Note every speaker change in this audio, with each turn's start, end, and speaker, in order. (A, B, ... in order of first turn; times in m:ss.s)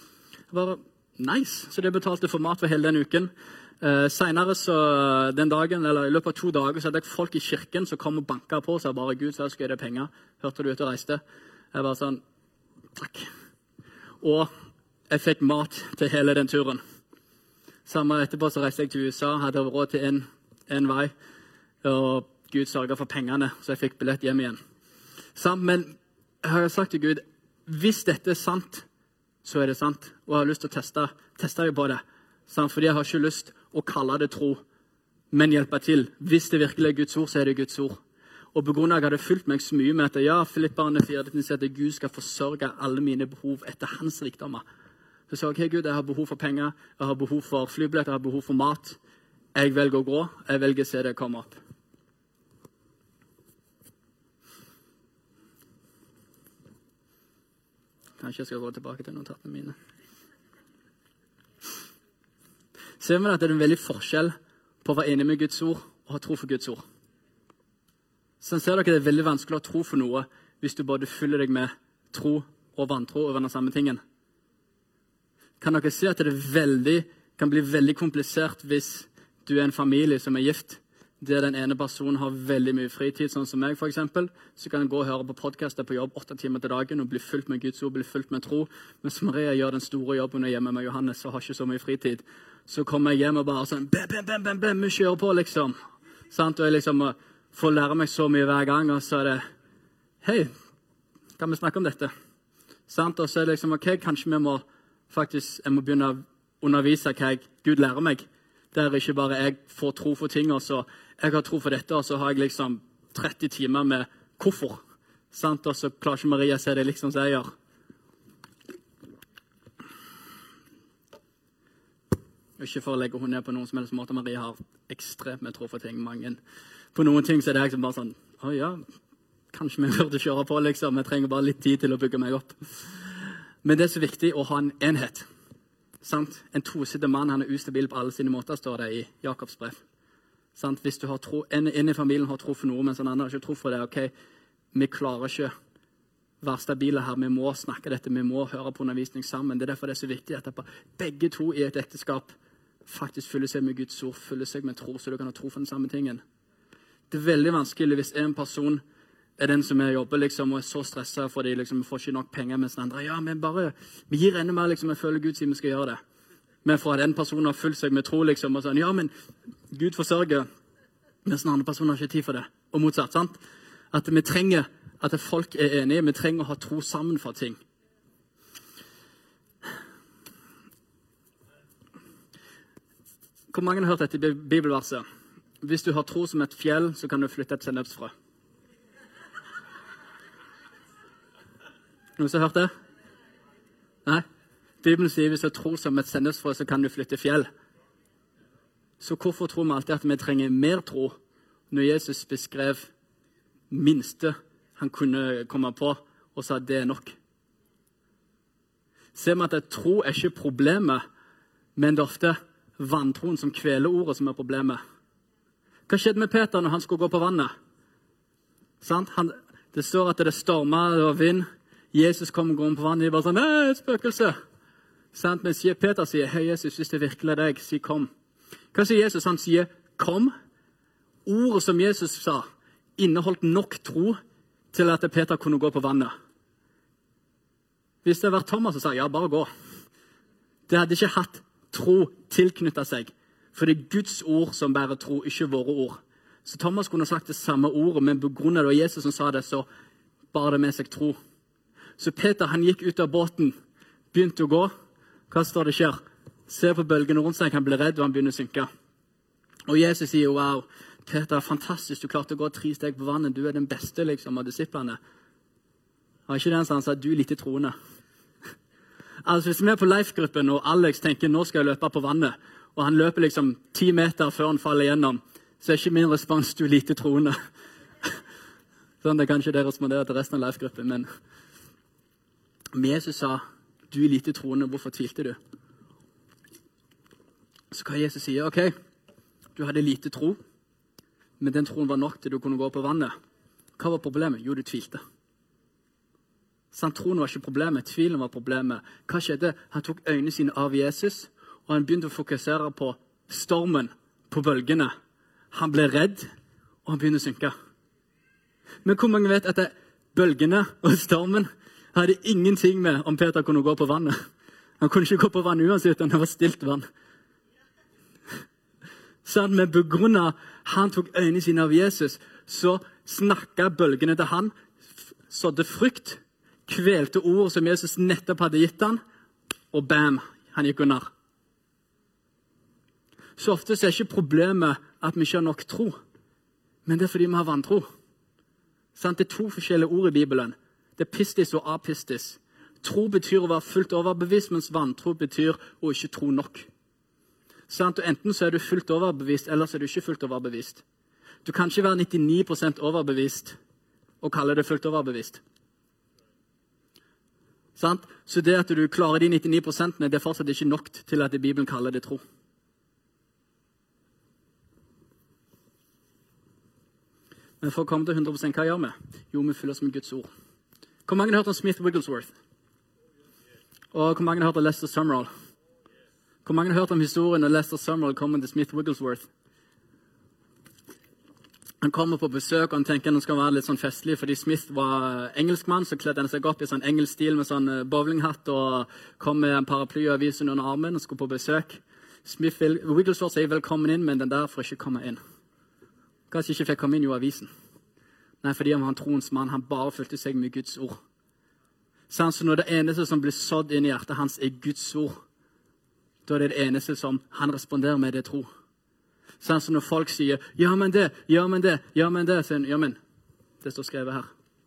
0:00.5-0:11.2 A
0:11.7-0:12.2 A
0:13.0-0:13.3 A
0:14.2-0:14.5 A
0:15.1-0:16.8 A
0:17.8-0:21.1 A
0:21.8-0:24.6 A
0:25.4-0:28.8 A
0:29.4-0:34.6 A
0:35.3-0:38.0 A
0:38.5-0:44.6 A
0:45.3-0:49.0 A
0:49.5-0:51.6 A
0:58.2-0:59.7 A
1:03.0-1:06.8 A
1:08.4-1:14.0 A
1:15.6-1:35.7 A
1:36.3-1:39.4 A
1:40.2-1:40.5 A
1:41.4-1:42.1 A
1:42.9-1:54.8 A
1:55.3-1:57.5 A
2:02.6-2:06.4 A
2:06.9-2:08.8 A
2:09.5-2:12.9 A
2:13.6-2:15.2 A
2:16.0-2:19.8 A
2:20.5-2:24.1 A
2:24.7-2:25.5 A
2:26.4-2:32.3 A
2:32.8-2:36.2 A
2:37.1-2:38.8 A
2:39.4-2:46.0 A
2:46.6-2:49.1 A
2:49.7-2:50.5 A
2:51.2-2:53.4 A
2:53.9-2:57.6 A
3:03.5-3:05.0 A
3:05.6-3:08.1 A
3:12.2-3:12.7 A
3:14.8-3:17.5 A
3:19.0-3:21.2 A
3:21.7-3:22.9 A
3:23.7-3:27.1 A
3:29.1-3:31.0 A
3:31.8-3:34.8 A
3:35.9-3:37.5 A
3:38.8-3:44.3 A
3:45.1-3:48.1 A
3:48.7-3:50.3 A
3:51.2-3:54.2 A
3:54.7-3:56.1 A
3:58.0-3:59.5 A
4:00.7-4:09.7 A
4:10.3-4:11.2 A
4:12.0-4:13.5 A
4:14.1-4:14.7 A
4:15.3-4:18.7 A
4:19.7-4:25.0 A
4:26.3-4:27.7 A
4:29.2-4:37.4 A
4:39.0-4:41.1 A
4:42.7-4:45.4 A
4:47.7-4:48.7 A
4:49.5-4:50.4 A
4:51.4-4:53.1 A
4:53.8-4:55.0 A
4:56.7-5:04.9 A
5:05.5-5:06.3 A
5:06.8-5:07.5 A
5:08.8-5:14.2 A
5:14.8-5:16.9 A
5:19.2-5:24.5 A
5:25.3-5:29.0 A
5:29.7-5:31.1 A
5:33.4-5:36.0 A
5:36.8-5:37.9 A
5:38.9-5:46.7 A
5:47.7-5:50.8 A
5:51.4-5:53.6 A
5:54.2-5:55.4 A
5:57.8-6:02.2 A
6:07.6-6:10.3 A
6:11.1-6:12.3 A
6:13.9-6:15.3 A
6:16.4-6:19.3 A
6:21.8-6:35.2 A
6:36.3-6:37.5 A
6:38.4-6:41.0 A
6:42.1-6:45.2 A
6:46.2-6:48.5 A
6:49.4-6:53.0 A
6:53.6-6:54.3 A